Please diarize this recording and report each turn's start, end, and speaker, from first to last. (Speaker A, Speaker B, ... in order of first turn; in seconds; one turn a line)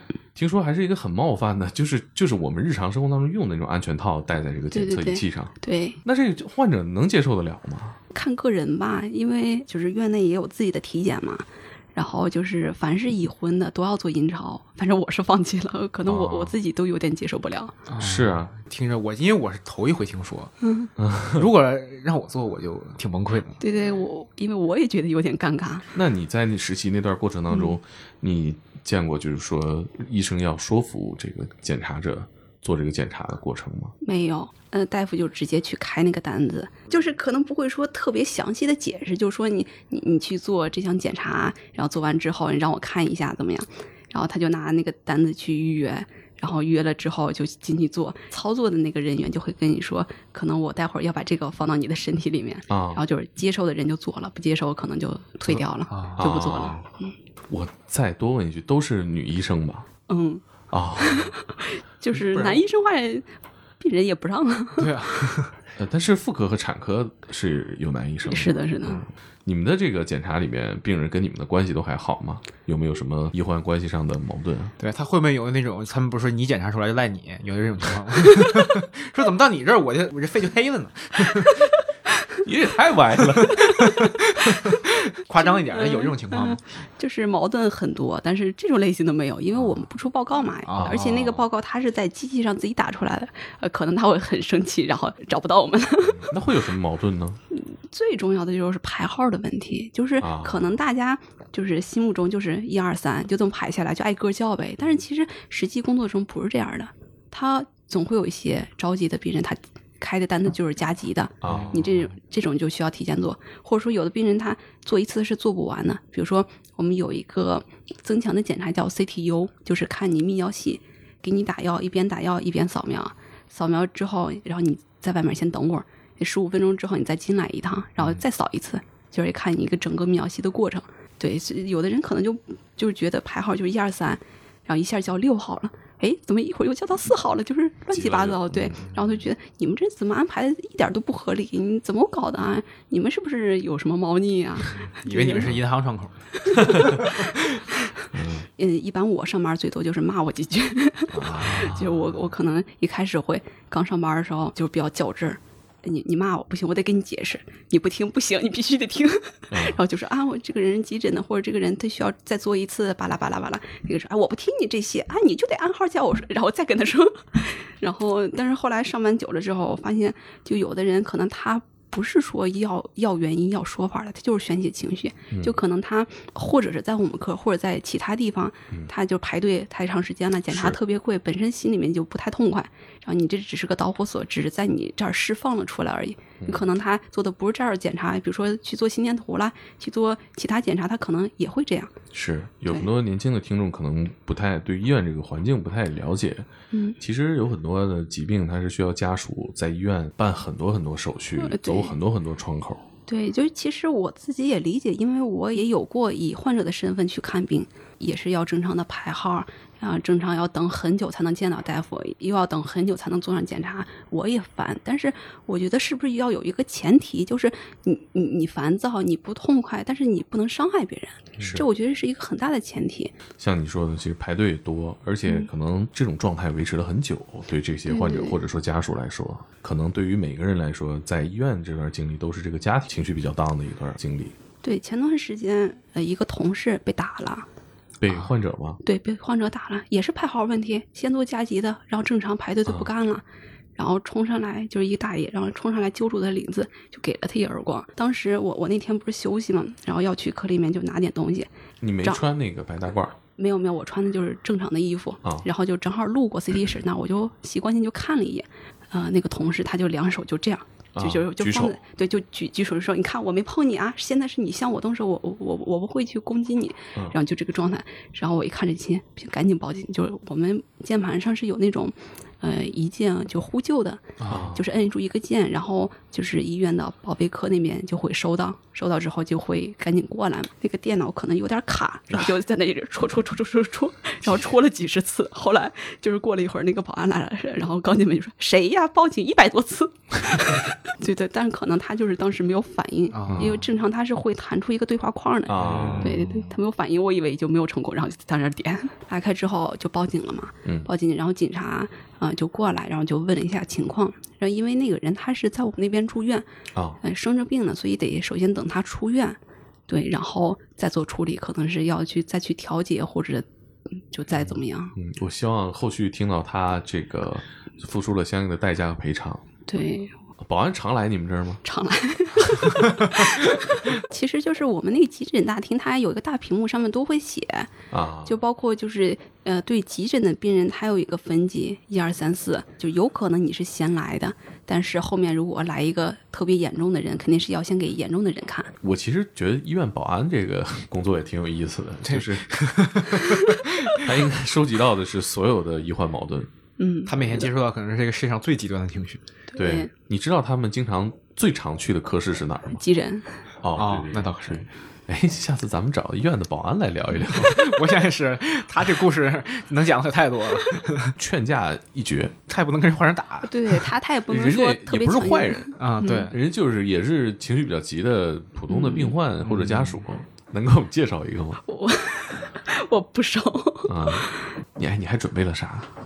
Speaker A: 0.3-8.0
Speaker B: 4.7-6.0
Speaker B: 8.1-17.7
Speaker A: 16.1-16.5
Speaker C: 17.9-20.5
Speaker A: 18.0-18.5
Speaker B: 20.6-20.9
Speaker A: 21.0-21.5
Speaker C: 21.3-23.6
Speaker B: 23.6-25.9
Speaker A: 25.9-33.9
Speaker B: 27.5-27.7
Speaker B: 34.0-57.1
Speaker A: 52.7-53.0
Speaker C: 55.5-56.7
Speaker A: 56.2-56.8
Speaker A: 57.5-59.9
Speaker B: 60.1-60.4
Speaker A: 60.7-61.3
Speaker B: 61.0-63.3
Speaker C: 62.1-62.6
Speaker B: 63.8-65.1
Speaker C: 64.8-65.5
Speaker A: 65.8-74.7
Speaker B: 68.2-69.0
Speaker C: 74.8-81.7
Speaker A: 82.4-84.1
Speaker C: 83.2-86.6
Speaker B: 85.4-96.3
Speaker C: 90.7-91.4
Speaker A: 96.0-97.4
Speaker B: 97.5-145.5
Speaker A: 100.2-100.7
Speaker A: 111.4-111.8
Speaker C: 111.4-112.1
Speaker A: 137.9-138.8
Speaker C: 144.7-147.6
Speaker B: 146.5-146.8
Speaker A: 146.5-147.0
Speaker A: 148.1-148.4
Speaker B: 148.6-191.9
Speaker A: 151.1-152.2
Speaker C: 151.4-151.8
Speaker A: 159.5-159.8
Speaker A: 175.3-175.6
Speaker A: 180.5-180.8
Speaker A: 186.4-186.7
Speaker A: 192.1-196.5
Speaker B: 196.7-197.0
Speaker A: 197.0-202.8
Speaker B: 201.4-201.9
Speaker B: 203.1-223.1
Speaker A: 221.4-221.7
Speaker A: 223.4-234.3
Speaker B: 227.9-228.4
Speaker B: 234.6-237.5
Speaker A: 238.0-238.8
Speaker B: 238.8-243.2
Speaker B: 243.8-251.5
Speaker A: 251.8-253.2
Speaker B: 253.3-306.5
Speaker A: 260.9-261.7
Speaker C: 274.2-274.5
Speaker A: 274.3-274.6
Speaker C: 293.1-293.6
Speaker A: 293.2-293.6
Speaker A: 295.5-296.2
Speaker C: 295.6-296.5
Speaker A: 300.6-300.9
Speaker A: 306.7-307.0
Speaker B: 307.0-314.9
Speaker A: 314.3-319.4
Speaker B: 319.7-320.2
Speaker A: 320.4-321.6
Speaker B: 321.6-327.7
Speaker A: 322.4-322.9
Speaker A: 327.9-328.4
Speaker B: 328.2-338.7
Speaker A: 338.8-342.5
Speaker C: 342.1-344.1
Speaker A: 344.0-346.5
Speaker B: 346.8-347.4
Speaker C: 347.1-349.2
Speaker B: 349.5-349.9
Speaker A: 349.6-352.8
Speaker B: 352.8-353.4
Speaker A: 353.6-357.8
Speaker C: 353.8-354.7
Speaker C: 357.3-361.1
Speaker A: 361.2-362.4
Speaker C: 362.5-363.9
Speaker B: 363.4-366.3
Speaker A: 364.3-365.7
Speaker C: 365.8-366.4
Speaker A: 366.3-371.6
Speaker B: 368.7-369.1
Speaker C: 369.4-370.0
Speaker B: 371.6-374.3
Speaker A: 373.9-375.9